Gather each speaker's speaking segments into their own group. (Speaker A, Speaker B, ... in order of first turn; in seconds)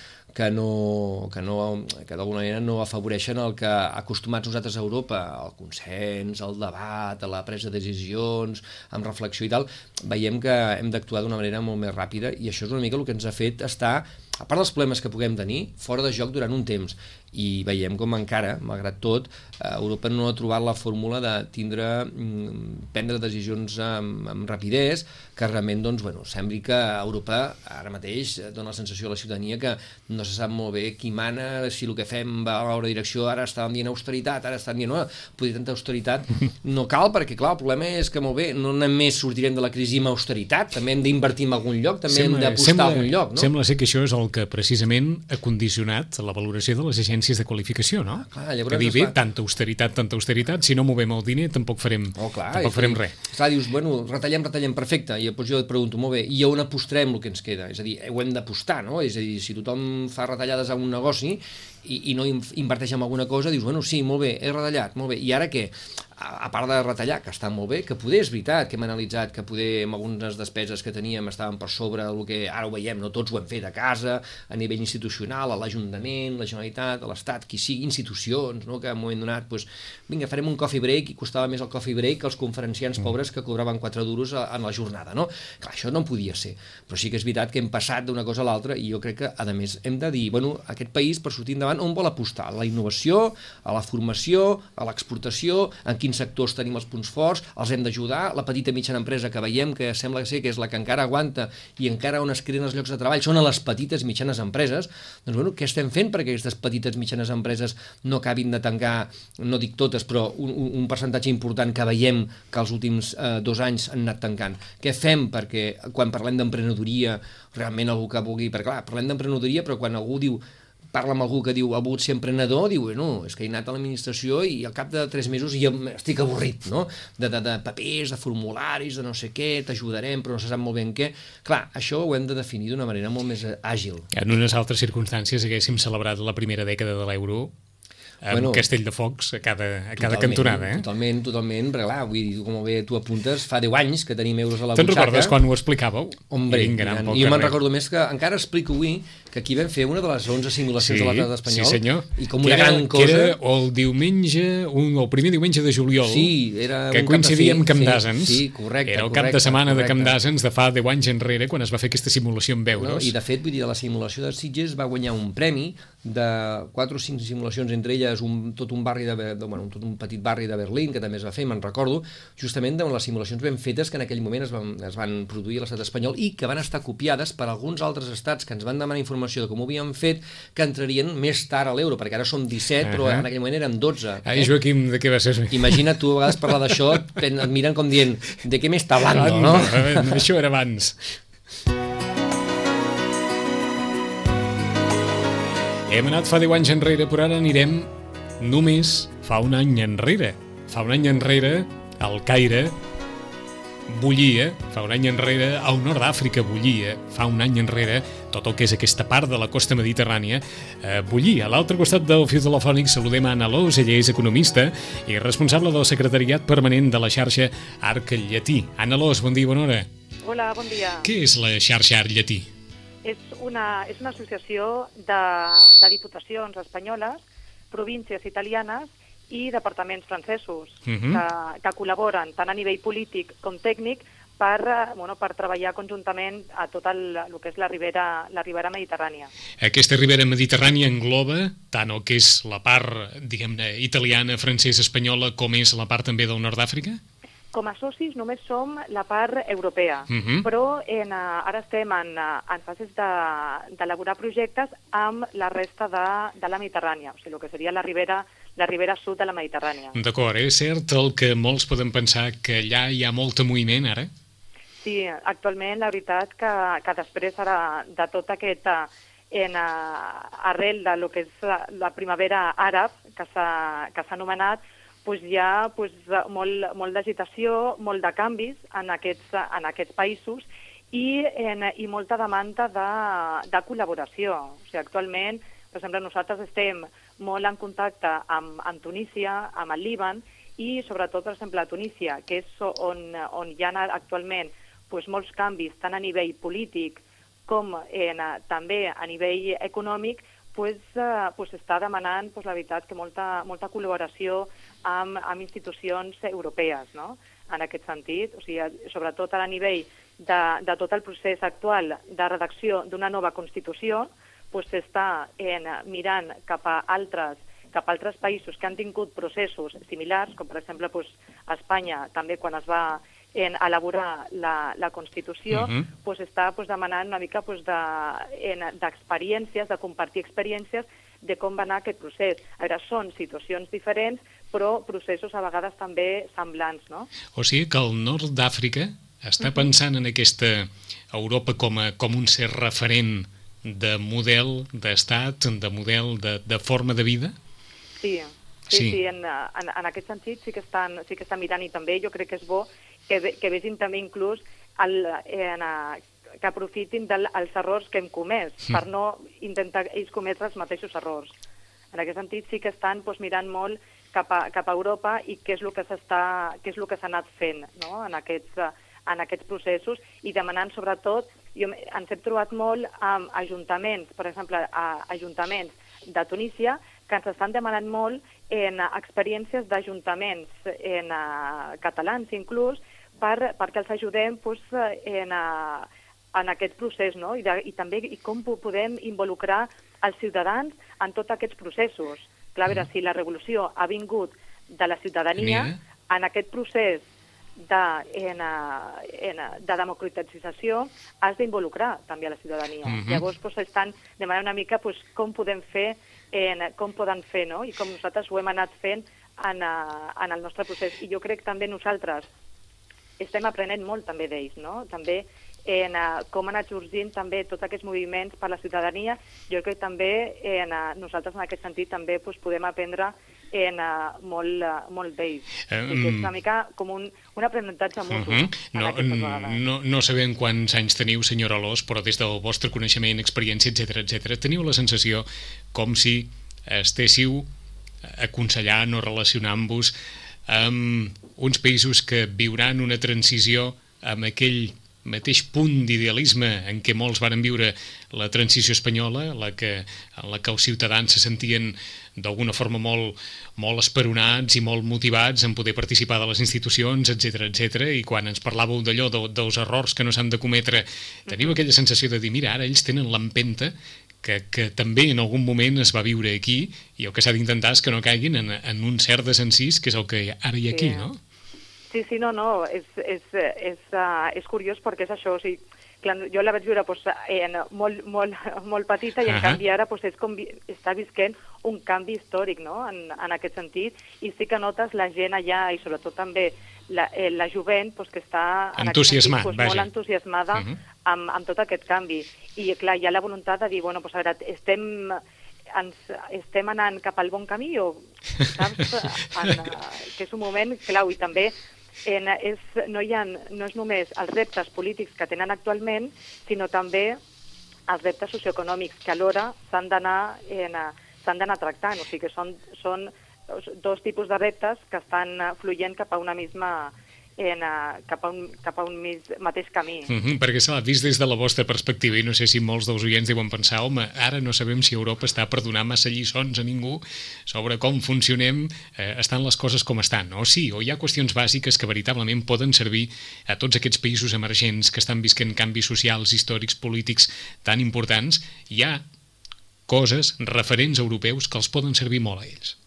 Speaker A: 0.3-43.5, 48.2-49.2, 52.1-120.4, 120.9-134.1, 138.3-138.6, 140.0-145.3, 146.3-153.4, 156.0-160.2, 162.8-184.5, 185.5-190.2
Speaker B: 42.1-53.1, 134.1-137.5, 138.2-140.8, 144.7-147.6, 150.8-156.3, 156.9-163.1, 182.8-183.2, 184.2-186.5, 189.1-191.2, 195.9-202.7, 203.9-219.9, 221.0-222.5, 230.9-231.2, 239.6-247.0, 250.1-250.4, 259.9-264.1, 325.5-325.8, 337.3-347.3, 348.7-349.0, 395.4-395.8, 402.9-403.2, 425.7-426.3, 428.1-437.5, 438.0-439.9, 440.5-471.2, 479.3-479.6, 488.8-489.9, 520.1-539.0, 539.9-542.8
Speaker C: 220.2-221.1, 223.0-239.3, 247.5-259.9, 264.8-337.1, 339.4-339.7, 348.0-361.4, 361.9-397.0, 397.6-412.3, 413.2-429.6, 461.3-461.6, 470.7-471.1, 471.9-495.2, 495.7-507.2, 507.9-520.1